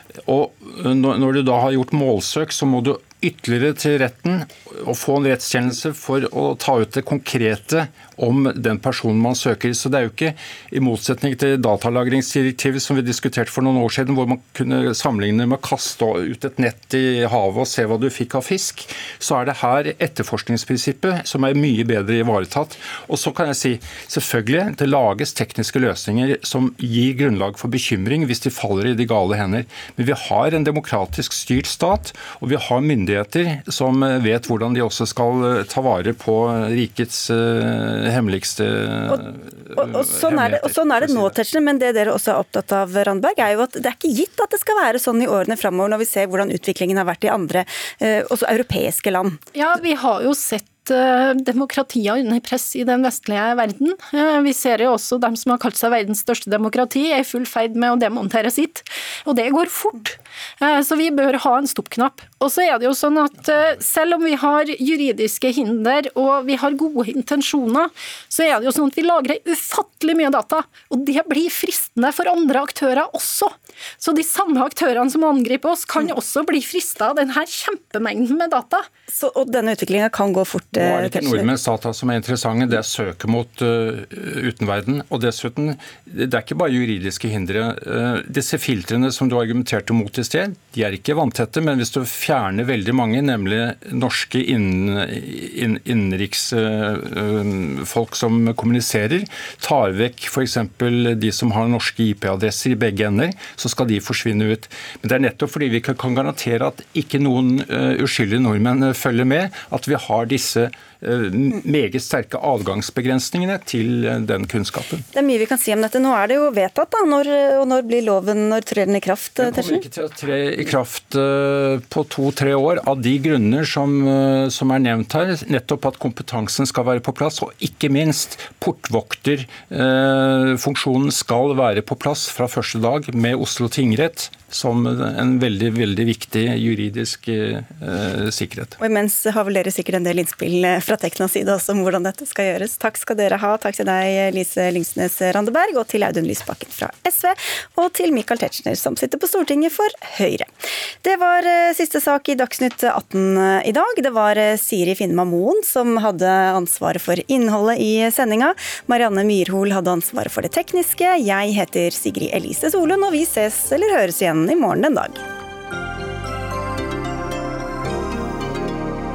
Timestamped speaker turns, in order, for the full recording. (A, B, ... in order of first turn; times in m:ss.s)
0:00.3-0:41.3 A
0:39.8-0:49.4 B
0:49.5-1:18.9 C
1:19.1-1:21.5 B
1:20.7-1:55.0 A
1:55.1-1:59.8 B
1:59.4-2:18.8 A
2:18.8-2:30.5 B
2:31.0-2:45.2 B